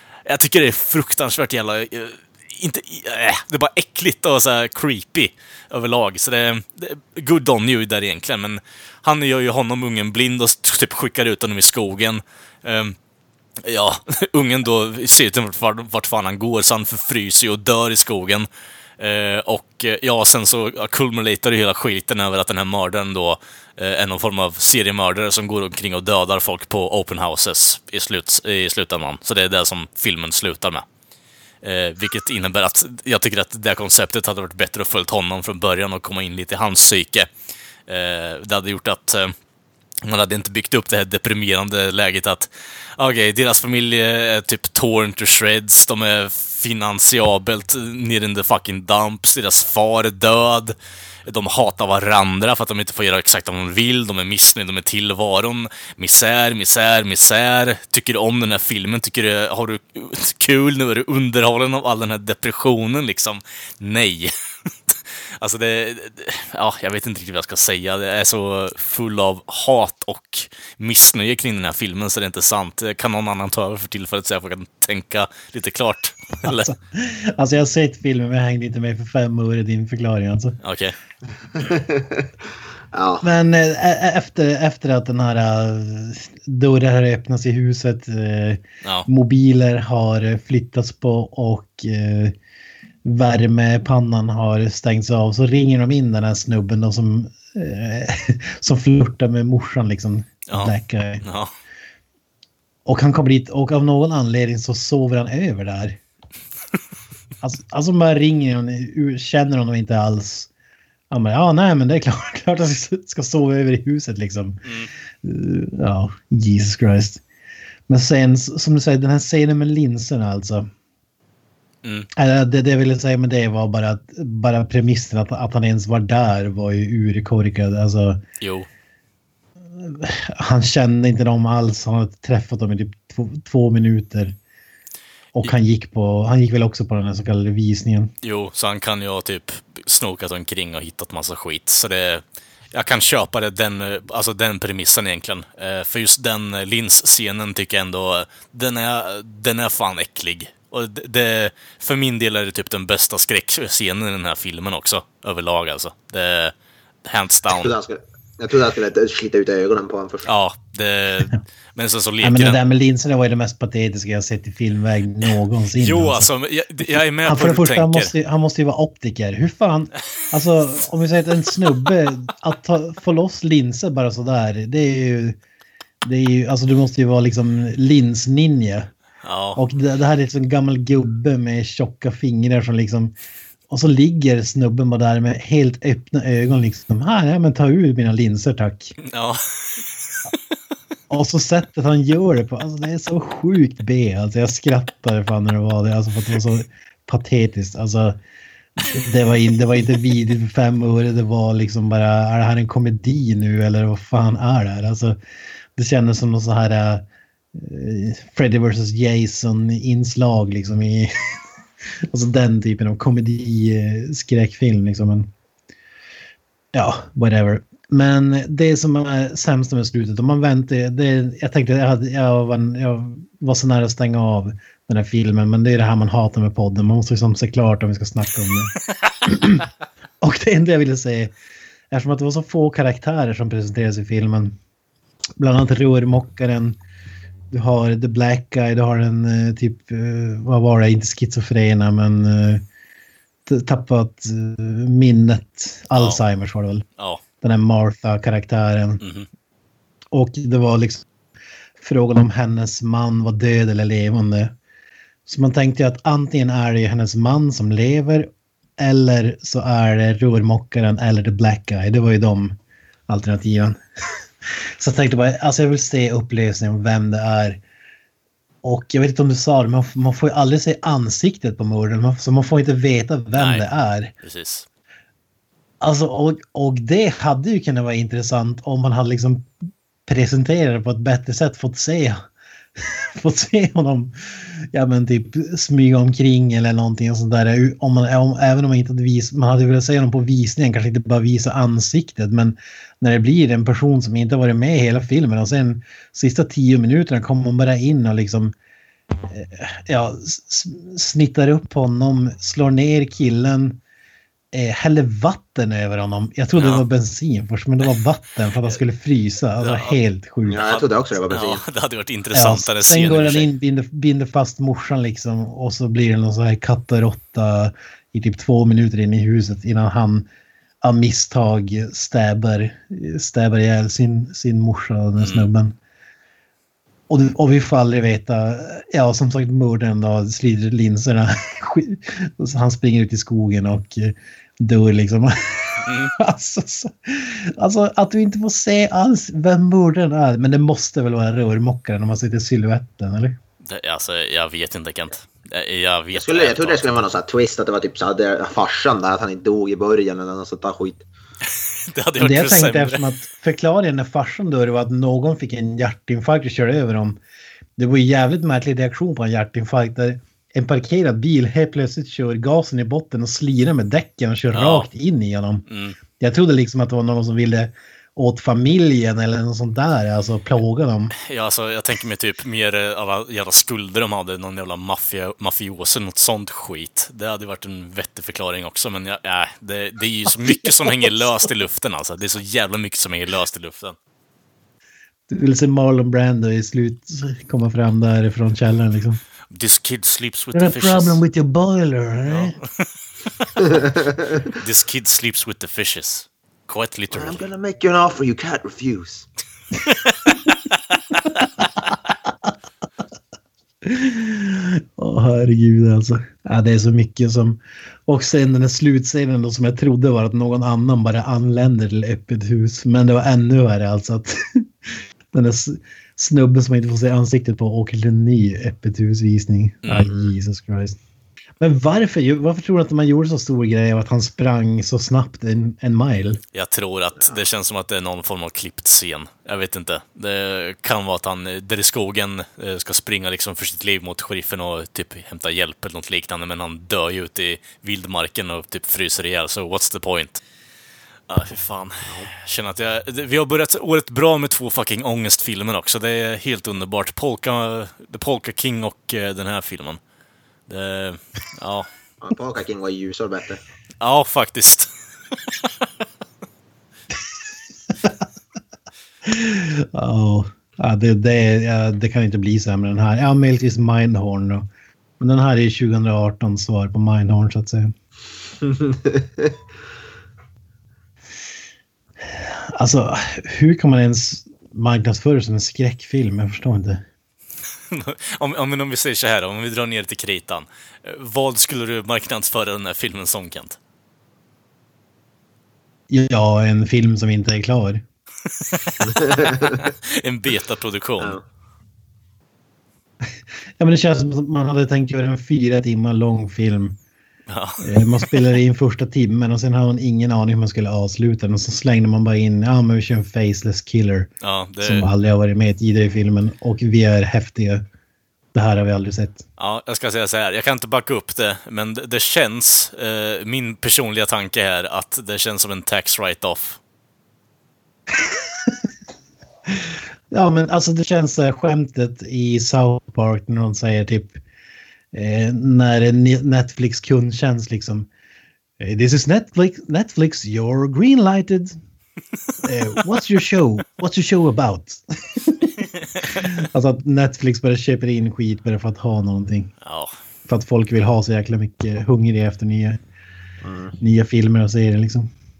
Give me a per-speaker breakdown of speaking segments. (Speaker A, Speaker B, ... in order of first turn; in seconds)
Speaker A: 0.3-13.0, 13.6-18.5, 19.0-30.8, 31.6-37.3, 37.9-39.3, 40.0-50.8, 51.3-64.3, 64.9-76.7, 80.6-81.0, 100.5-101.5, 114.7-114.9, 121.8-122.1, 128.4-128.7, 138.2-142.2, 142.7-156.5, 157.1-157.7, 160.3-162.6, 165.8-168.1, 179.2-179.6, 189.0-189.4, 246.0-246.2, 249.0-249.3, 273.4-273.7, 274.2-274.7, 306.6-306.9, 309.6-310.0, 310.6-313.5, 325.2-325.5, 335.8-336.1, 343.6-347.0, 351.9-353.1, 364.5-364.9, 365.7-366.0, 371.2-384.0, 389.5-391.2, 392.3-392.9, 394.6-397.5, 400.0-400.3, 419.9-420.1, 426.5-440.4, 441.3-450.0, 450.7-451.9, 454.0-454.9, 477.9-483.8, 488.7-491.4, 497.5-498.3, 504.4-505.1, 509.6-516.8, 539.8-540.1
Speaker B: 76.4-80.6, 83.2-92.4, 93.0-101.2, 102.8-106.0, 107.4-110.5, 111.1-117.2, 117.9-120.7, 122.2-128.2, 129.8-134.3, 135.4-138.1, 162.2-166.3, 167.2-175.4, 176.0-178.9, 179.6-183.1, 183.7-189.0, 191.1-198.2, 198.8-205.2, 205.8-211.3, 212.1-215.3, 216.7-228.7, 229.2-229.7, 230.2-231.3, 231.9-234.6, 235.4-236.8, 237.5-242.6, 243.5-246.9, 247.4-249.0, 250.1-251.1, 251.8-254.5, 255.3-262.6, 263.1-264.2, 264.8-267.6, 268.6-274.1, 275.8-279.5, 280.1-282.2, 282.8-298.5, 299.3-303.8, 304.5-310.6, 312.3-320.3, 320.8-325.8, 327.1-343.4, 352.2-357.2, 357.8-371.1, 380.5-381.1, 385.3-389.2, 390.5-392.6, 402.3-402.5, 403.8-421.0, 421.6-426.4, 459.2-464.7, 465.2-467.9, 472.3-477.1, 486.1-488.0, 493.8-497.0, 497.8-507.8, 508.5-509.4, 518.2-518.9, 519.7-524.4, 525.1-528.1, 528.8-531.8, 532.6-539.7, 540.5-543.0, 544.0-545.3
Speaker C: 81.6-82.3, 82.9-83.2, 157.5-160.3, 310.5-311.6, 346.1-351.1, 393.7-394.1, 397.1-399.3, 452.2-453.6, 468.7-469.5, 489.1-489.9, 543.6-544.0